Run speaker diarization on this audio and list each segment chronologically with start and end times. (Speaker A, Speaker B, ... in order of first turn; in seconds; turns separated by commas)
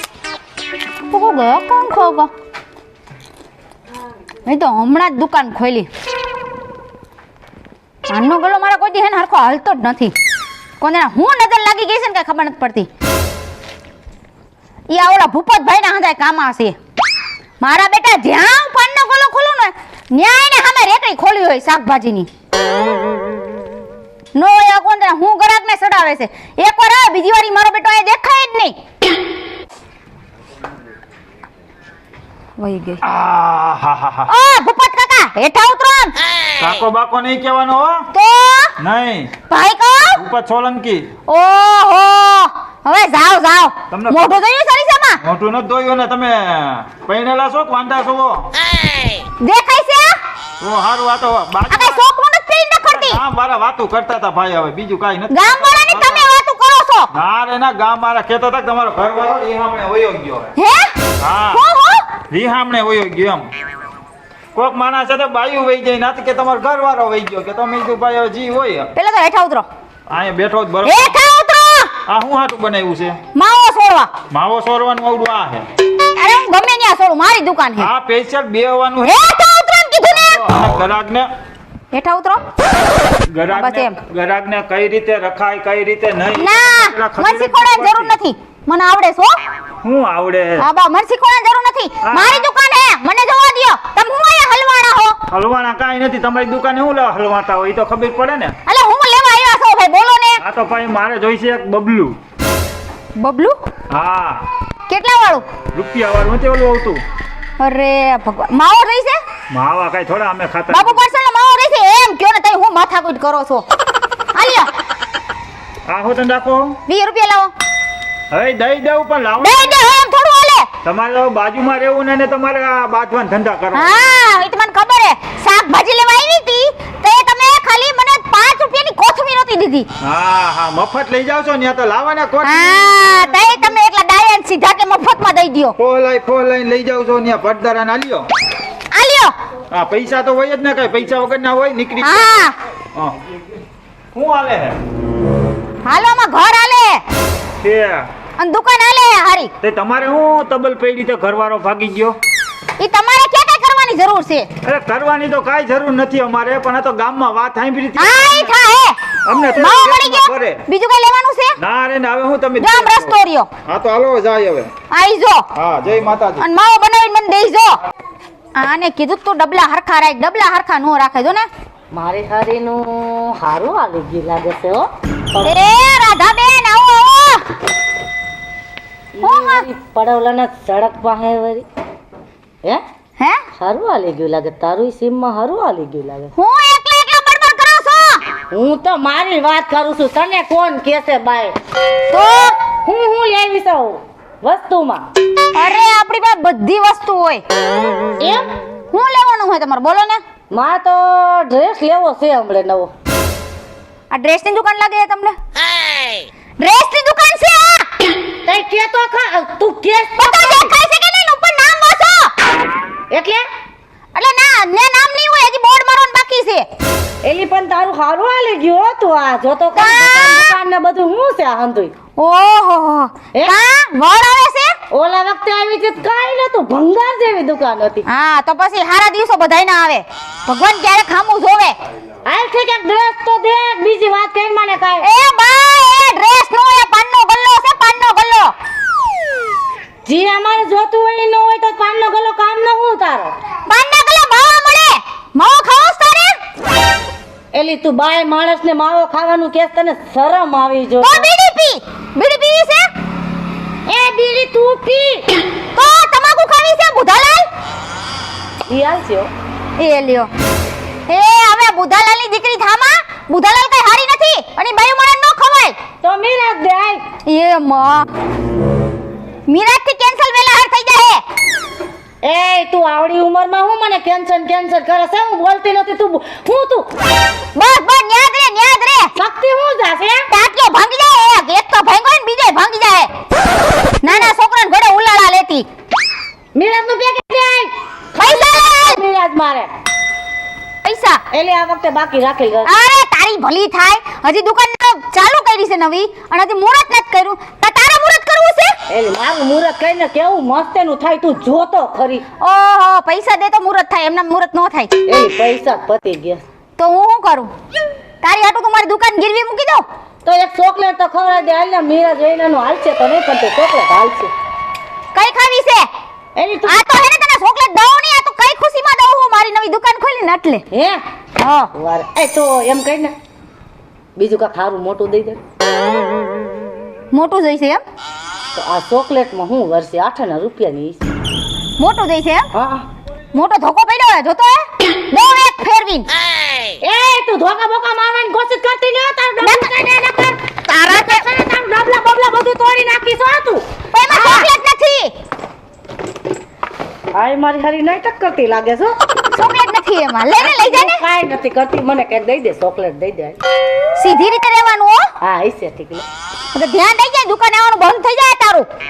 Speaker A: 1.1-2.3, Speaker A: 4.4-5.9, Speaker A: 8.1-10.1, Speaker A: 10.8-12.9, Speaker A: 14.9-16.8, Speaker A: 17.6-22.3, Speaker A: 24.3-28.8, Speaker A: 32.6-33.0, Speaker B: 33.0-34.3, Speaker A: 34.3-36.1, Speaker B: 36.6-38.0, Speaker A: 38.1-38.7, Speaker B: 38.8-39.3, Speaker A: 39.5-40.2, Speaker B: 40.1-41.1, Speaker A: 41.3-45.2, Speaker B: 43.9-44.3, Speaker B: 45.2-48.5, Speaker A: 49.4-50.2, Speaker B: 50.6-52.0, Speaker A: 51.7-53.2, Speaker B: 52.9-56.2, Speaker A: 55.3-57.1, Speaker B: 57.1-60.5, Speaker A: 60.5-60.9, Speaker B: 61.2-61.6, Speaker A: 61.5-62.0, Speaker B: 62.3-63.5, Speaker B: 64.5-68.9, Speaker A: 68.9-69.7, Speaker B: 70.1-71.1, Speaker A: 70.8-71.9, Speaker B: 72.1-73.2, Speaker A: 73.3-74.1, Speaker B: 74.3-75.6, Speaker A: 76.1-77.9, Speaker B: 77.8-79.1, Speaker A: 79.0-80.4, Speaker B: 80.1-81.3, Speaker A: 81.9-82.4, Speaker B: 83.3-88.2, Speaker A: 83.5-84.0, Speaker A: 86.4-89.4, Speaker B: 89.8-90.7, Speaker A: 90.6-95.2, Speaker B: 92.0-92.5, Speaker B: 95.3-98.5, Speaker A: 98.7-100.4, Speaker B: 100.4-102.2, Speaker A: 103.2-103.6, Speaker B: 103.9-104.5, Speaker A: 104.9-105.4, Speaker B: 105.7-107.0, Speaker A: 107.6-109.2, Speaker B: 109.5-111.0, Speaker A: 110.7-113.6, Speaker A: 114.3-114.7, Speaker B: 115.9-116.8, Speaker A: 116.9-117.5, Speaker B: 118.3-119.8, Speaker A: 119.4-120.7, Speaker B: 120.8-124.0, Speaker A: 123.7-129.9, Speaker B: 130.0-133.5, Speaker A: 132.4-135.8, Speaker B: 135.8-138.3, Speaker A: 138.9-139.3, Speaker B: 139.7-142.2, Speaker A: 142.0-142.6, Speaker B: 144.1-144.8, Speaker A: 145.8-147.0, Speaker B: 147.6-148.1, Speaker A: 148.4-149.5, Speaker B: 149.6-152.2, Speaker A: 152.8-154.5, Speaker B: 154.6-158.5, Speaker A: 158.0-159.0, Speaker B: 159.2-160.6, Speaker A: 159.6-161.6, Speaker B: 161.6-163.2, Speaker A: 162.6-163.5, Speaker B: 163.7-164.7, Speaker A: 164.9-165.5, Speaker B: 165.5-166.5, Speaker A: 166.4-167.8, Speaker A: 168.6-171.5, Speaker C: 171.9-175.6, Speaker A: 175.4-177.4, Speaker C: 179.2-181.6, Speaker A: 179.2-179.6, Speaker C: 183.6-186.3, Speaker A: 186.3-188.2, Speaker C: 188.5-191.6, Speaker A: 192.1-192.5, Speaker C: 192.8-195.1, Speaker A: 195.5-197.4, Speaker C: 198.2-198.5, Speaker A: 198.9-200.2, Speaker C: 200.5-202.9, Speaker A: 204.1-205.4, Speaker A: 206.6-207.9, Speaker C: 208.4-210.7, Speaker A: 210.2-212.3, Speaker C: 213.1-213.4, Speaker A: 214.1-216.7, Speaker C: 217.2-221.9, Speaker A: 219.7-220.5, Speaker A: 222.2-224.7, Speaker C: 224.9-228.1, Speaker A: 228.1-231.8, Speaker C: 232.2-235.1, Speaker A: 235.0-238.5, Speaker C: 240.1-243.3, Speaker A: 243.7-246.3, Speaker C: 247.5-251.3, Speaker A: 251.0-252.9, Speaker C: 253.9-255.3, Speaker A: 255.7-257.5, Speaker C: 258.7-259.3, Speaker A: 259.8-260.3, Speaker A: 261.1-265.8, Speaker C: 266.0-267.0, Speaker A: 267.2-268.1, Speaker A: 269.5-271.2, Speaker C: 272.2-276.9, Speaker A: 277.5-279.1, Speaker C: 279.2-280.2, Speaker A: 280.3-283.1, Speaker A: 284.0-285.7, Speaker C: 284.1-284.3, Speaker C: 286.5-289.7, Speaker A: 288.2-289.0, Speaker A: 290.8-291.2, Speaker C: 291.3-292.7, Speaker A: 292.6-298.7, Speaker C: 298.9-302.2, Speaker A: 302.4-304.9, Speaker C: 305.1-306.4, Speaker A: 306.8-307.5, Speaker A: 308.2-309.8, Speaker C: 310.2-314.3, Speaker A: 315.1-315.9, Speaker C: 316.4-316.9, Speaker A: 316.6-320.6, Speaker C: 320.7-321.0, Speaker A: 321.4-321.7, Speaker C: 321.7-323.1, Speaker C: 324.1-325.4, Speaker A: 327.1-327.8, Speaker C: 328.5-331.1, Speaker A: 331.8-332.5, Speaker C: 332.5-332.9, Speaker A: 333.3-336.1, Speaker C: 336.8-344.4, Speaker A: 339.4-339.7, Speaker A: 340.7-341.2, Speaker A: 343.9-345.1, Speaker C: 347.1-348.9, Speaker A: 349.3-351.0, Speaker C: 350.4-353.4, Speaker A: 353.9-355.1, Speaker C: 355.2-356.0, Speaker A: 356.5-358.7